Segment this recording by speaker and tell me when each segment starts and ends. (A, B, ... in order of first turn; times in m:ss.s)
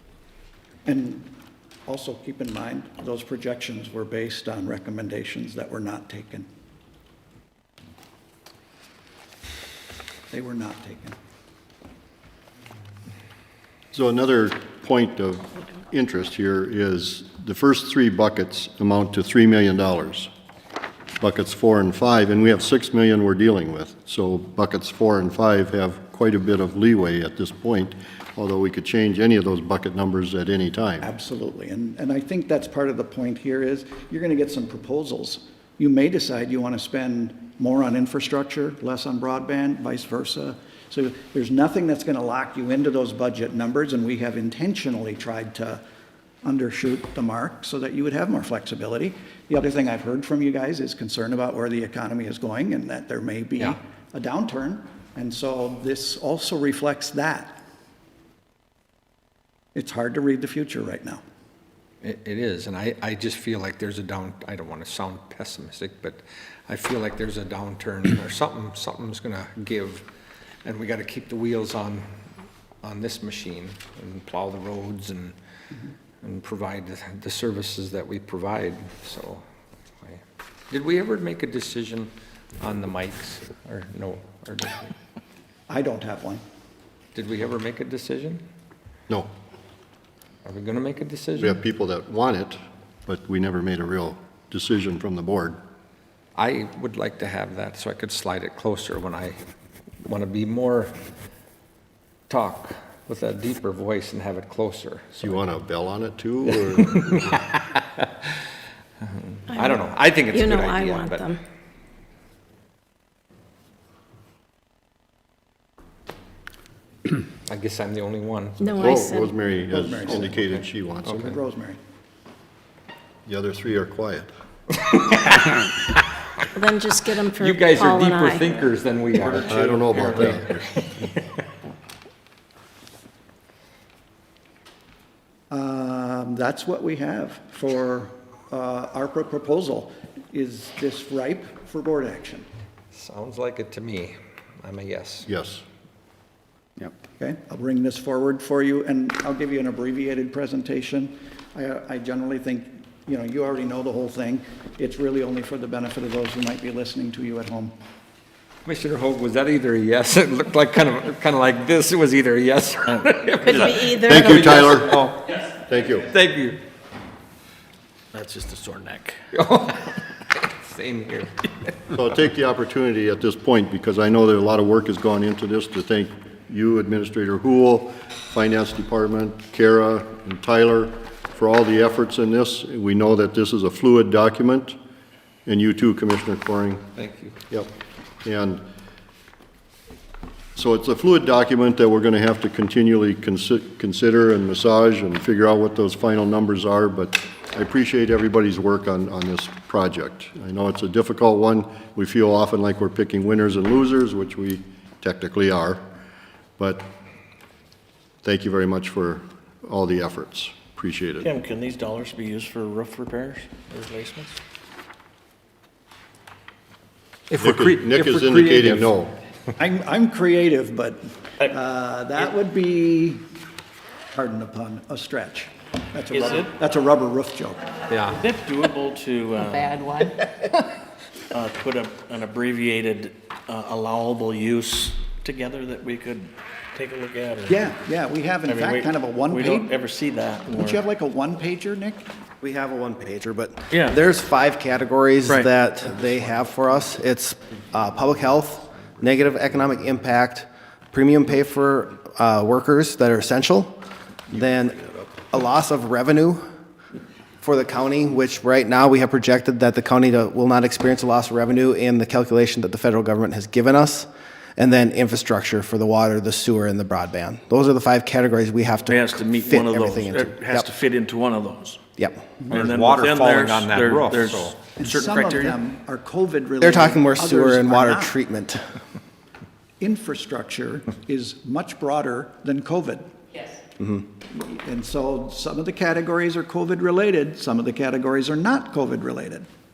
0:00.8-0:01.3 A
0:01.8-0:06.5 A
0:10.3-0:11.2 A
0:13.9-0:20.3 B
0:21.2-0:31.1 B
0:31.0-0:45.8 A
0:46.4-0:57.6 A
0:59.7-1:01.2 A
1:02.0-1:10.0 C
1:10.6-1:12.0 C
1:12.8-1:15.3 C
1:16.2-1:19.4 C
1:20.0-1:24.9 C
1:25.7-1:26.4 A
1:27.1-1:28.4 C
1:30.4-1:31.6 C
1:31.4-1:35.6 B
1:36.4-1:39.4 C
1:40.0-1:40.9 C
1:42.3-1:45.4 C
1:45.2-1:47.4 B
1:46.6-1:48.3 C
1:49.0-1:51.3 C
1:49.5-1:51.4 D
1:57.4-1:58.8 C
1:58.6-1:59.3 D
1:58.8-2:01.3 B
1:59.7-2:00.3 A
2:00.0-2:01.4 C
2:01.2-2:01.8 A
2:03.2-2:04.3 B
2:04.8-2:06.0 C
2:06.5-2:08.6 D
2:07.4-2:11.2 C
2:09.3-2:10.3 E
2:09.3-2:10.6 B
2:15.5-2:22.4 A
2:22.9-2:25.3 C
2:25.2-2:25.6 B
2:27.2-2:37.7 A
2:38.6-2:46.6 C
2:42.9-2:43.7 E
2:43.4-2:44.6 D
2:44.0-2:45.0 B
2:45.7-2:46.1 B
2:48.1-2:49.2 E
2:49.3-2:51.9 C
2:51.9-3:04.8 B
3:05.4-3:06.8 B
3:07.0-3:07.4 C
3:07.5-3:08.6 B
3:10.5-3:25.8 B
3:26.6-3:26.9 B
3:28.2-3:31.3 B
3:31.2-3:34.3 E
3:37.3-3:38.9 C
3:37.4-3:39.2 B
3:39.6-3:43.2 A
3:44.1-3:47.6 A
3:46.1-3:46.5 E
3:47.9-3:48.2 C
3:48.1-3:50.1 E
3:51.3-3:57.6 E
3:57.5-3:59.8 A
3:58.4-4:00.8 E
4:00.5-4:02.0 A
4:02.4-4:13.8 F
4:03.7-4:04.0 E
4:14.3-4:16.4 F
4:17.4-4:30.7 F
4:28.8-4:31.8 E
4:32.0-4:32.4 F
4:32.5-4:35.6 E
4:32.5-4:34.6 C
4:34.8-4:38.1 A
4:36.6-4:38.6 F
4:39.8-4:43.1 A
4:44.3-4:49.5 A